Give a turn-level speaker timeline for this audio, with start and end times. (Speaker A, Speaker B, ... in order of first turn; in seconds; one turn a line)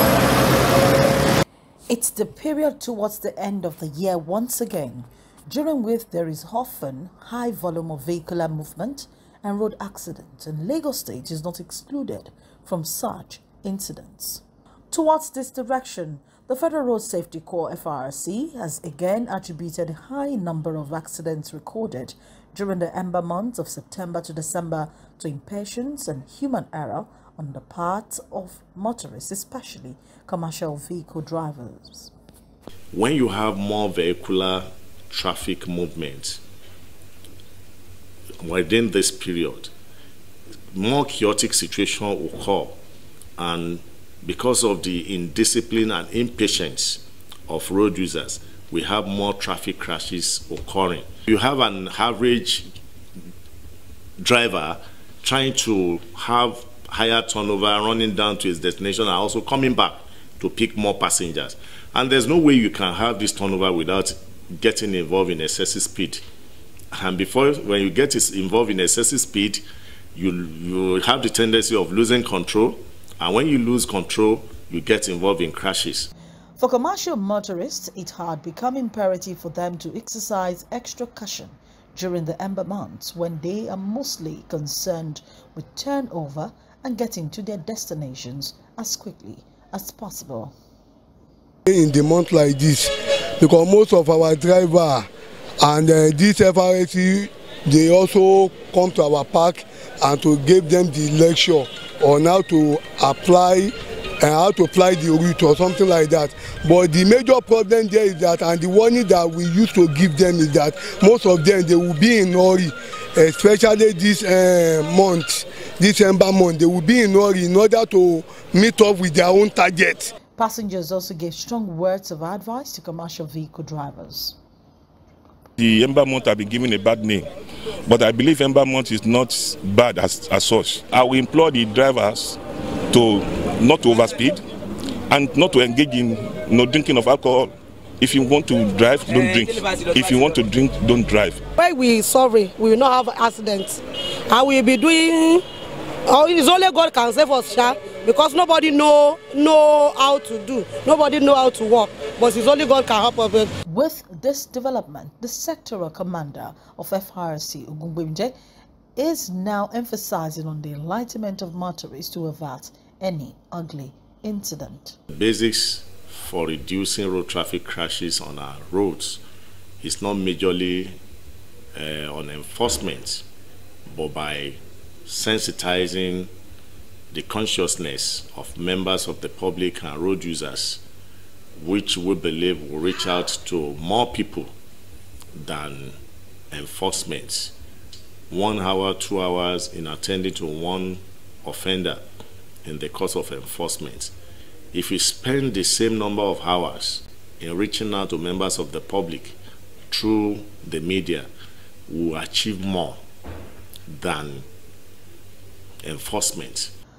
Speaker A: 1.9-32.1
Speaker B: 32.9-36.4
Speaker B: 38.4-39.7
Speaker B: 40.7-42.8
Speaker B: 43.4-52.7
Speaker B: 54.2-66.2
Speaker B: 66.9-69.6
Speaker B: 70.1-76.1
Speaker A: 76.6-90.5
Speaker C: 91.7-95.1
Speaker C: 95.6-120.1
Speaker A: 120.4-124.4
Speaker D: 125.6-127.3
Speaker D: 127.9-132.4
Speaker D: 132.9-134.4
Speaker D: 135.1-141.4
Speaker E: 141.6-145.4
Speaker E: 146.1-153.5
Speaker A: 153.7-158.3
Speaker A: 159.0-165.0
Speaker B: 165.1-169.2
Speaker B: 169.8-171.0
Speaker B: 171.8-173.3
Speaker B: 173.9-176.3
Speaker B: 177.1-180.8
Speaker B: 181.6-184.5
Speaker B: 185.3-186.0
Speaker B: 186.5-187.6
Speaker B: 188.3-192.0
Speaker B: 192.7-194.1
Speaker B: 194.7-199.4
Speaker B: 199.9-201.3
Speaker B: 201.9-203.0
Speaker B: 203.9-204.5
Speaker B: 205.8-206.7